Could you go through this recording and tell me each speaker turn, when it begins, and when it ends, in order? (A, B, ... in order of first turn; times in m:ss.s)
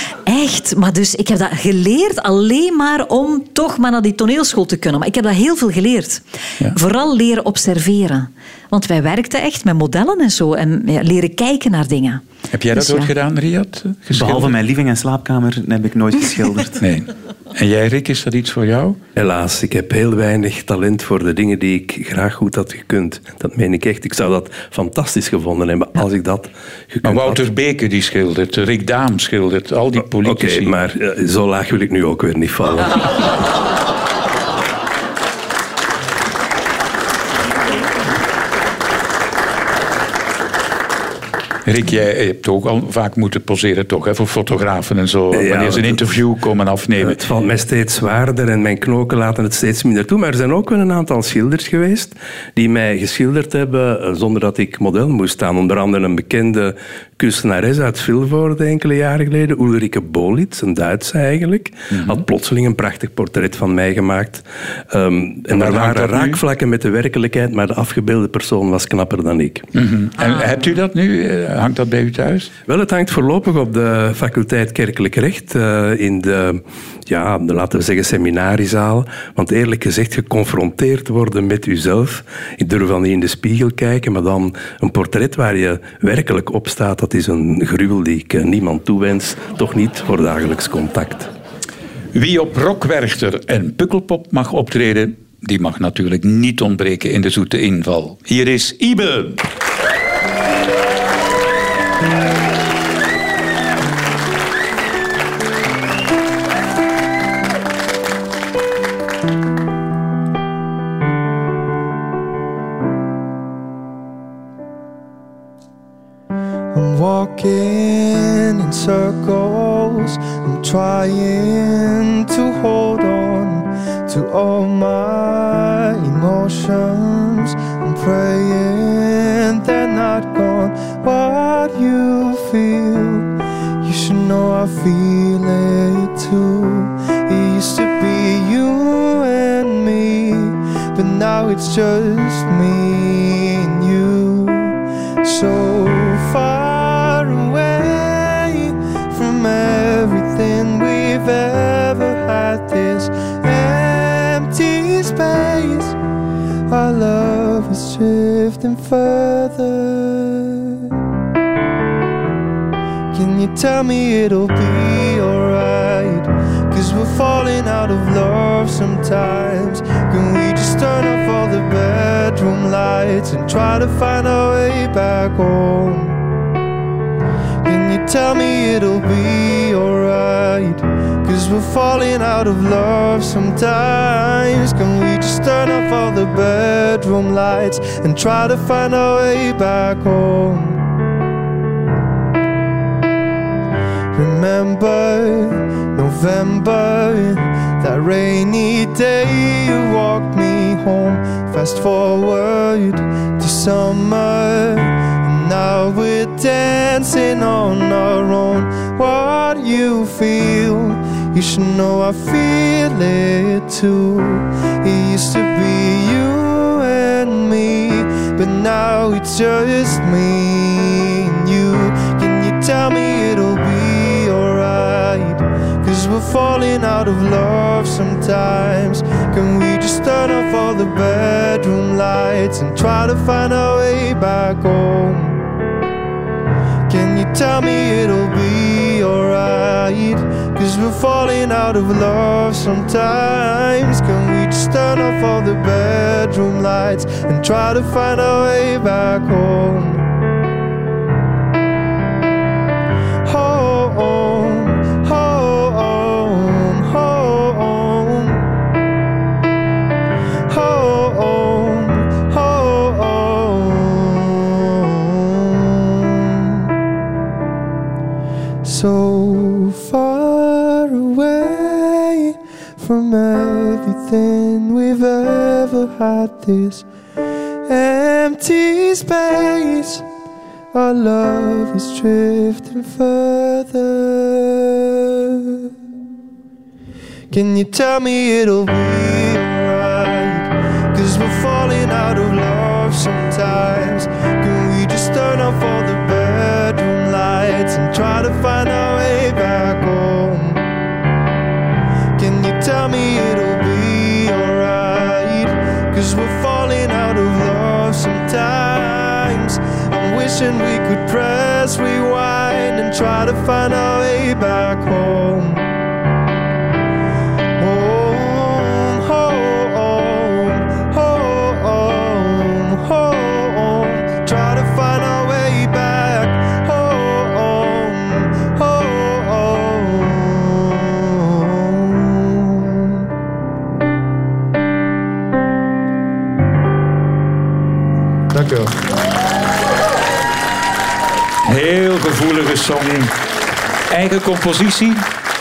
0:00.2-0:12.2 A
0:12.5-0:14.6 B
0:12.7-0:13.1 A
0:14.1-0:16.8 C
0:16.8-0:19.0 B
0:19.2-0:27.4 D
0:27.0-0:30.7 B
0:30.2-0:33.1 D
0:41.6-0:47.2 B
0:45.3-0:46.0 D
0:47.0-1:09.7 D
1:05.5-1:06.4 B
1:09.7-1:12.5 B
1:12.6-1:31.3 D
1:32.1-1:39.4 B
1:56.7-2:36.0 E
2:36.7-2:40.9 E
2:43.1-2:56.2 E
2:57.6-3:10.8 E
3:14.1-3:55.4 E
3:56.9-4:10.1 E
4:13.2-4:18.5 E
4:20.5-4:26.7 E
4:28.6-4:36.8 E
4:37.7-4:40.0 E
4:40.7-4:45.7 E
4:47.3-5:00.6 E
5:02.2-5:15.7 E
5:17.6-5:33.1 E
5:38.3-5:38.7 E
5:41.4-5:43.1 B
5:43.9-5:45.1 B